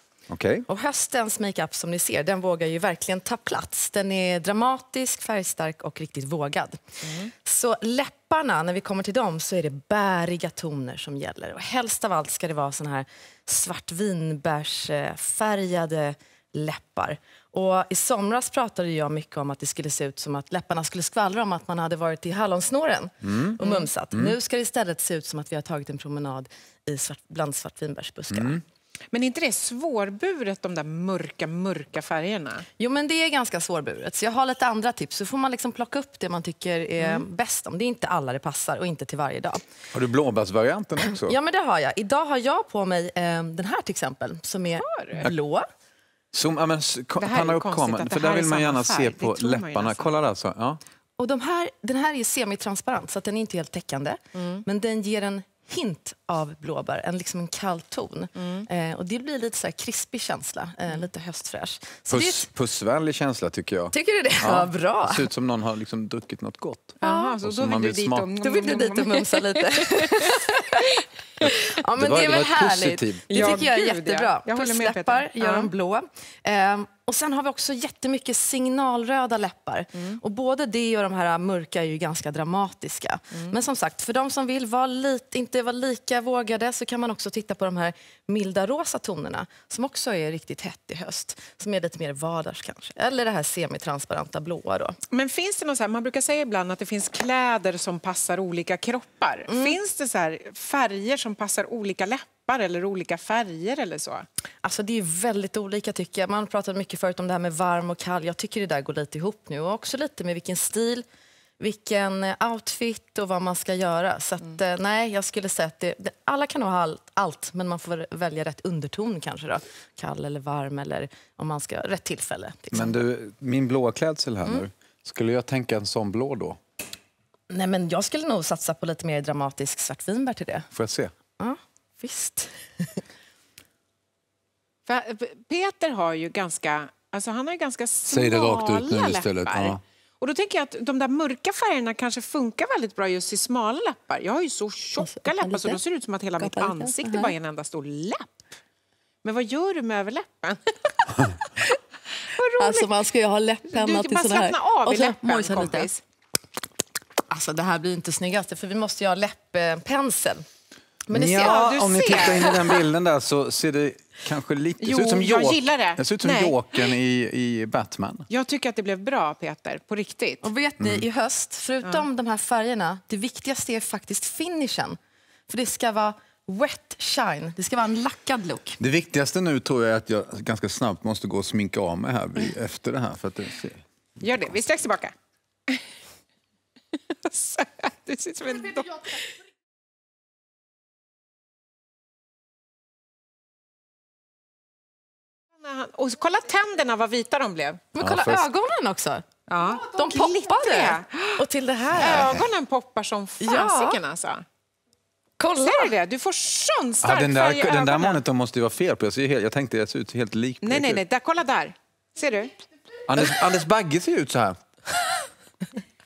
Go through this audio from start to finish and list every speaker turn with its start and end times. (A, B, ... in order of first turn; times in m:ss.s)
0:00.3-0:00.6 A
0:00.7-0:06.8 B
0:07.4-0:28.6 B
0:23.2-0:23.6 A
0:23.6-0:23.9 C
0:28.3-0:28.6 A
0:29.1-0:32.6 C
0:32.8-0:39.6 B
0:37.0-0:37.2 C
0:39.9-0:41.4 A
0:41.1-0:45.6 B
0:44.8-0:45.3 C
0:46.3-0:50.8 A
0:47.2-0:50.1 C
0:51.2-1:02.5 B
0:54.3-0:54.6 C
0:58.4-0:58.6 C
1:02.1-1:08.3 A
1:03.9-1:05.3 B
1:07.0-1:11.0 C
1:07.0-1:07.3 B
1:08.4-1:35.0 B
1:11.4-1:13.6 A
1:13.3-1:15.7 C
1:35.1-1:44.2 C
1:39.5-1:39.8 B
1:44.6-1:51.0 B
1:51.6-2:03.0 B
2:02.7-2:06.6 A
2:07.5-2:10.7 B
2:10.7-2:11.1 A
2:11.4-2:13.0 B
2:14.9-2:28.4 C
2:18.1-2:19.8 A
2:25.0-2:25.8 B
2:26.4-2:27.3 B
2:29.2-2:31.4 C
2:32.3-2:32.9 C
2:32.6-2:35.9 B
2:33.7-2:36.0 C
2:37.3-2:40.4 B
2:41.0-2:42.7 B
2:41.1-2:48.3 A
2:41.4-2:42.8 C
2:44.8-2:46.9 C
2:48.3-2:50.4 C
2:50.4-2:58.8 B
2:50.8-2:51.0 A
2:58.8-3:03.8 A
3:04.2-3:05.1 C
3:07.2-3:09.3 C
3:15.6-3:17.8 C
3:17.9-3:22.4 B
3:18.0-3:18.5 A
3:19.5-3:21.4 C
3:21.9-3:24.4 C
3:23.4-3:24.0 B
3:25.4-3:25.9 B
3:25.6-3:28.2 C
3:27.0-3:31.0 A
3:30.6-3:32.5 C
3:33.1-3:34.6 A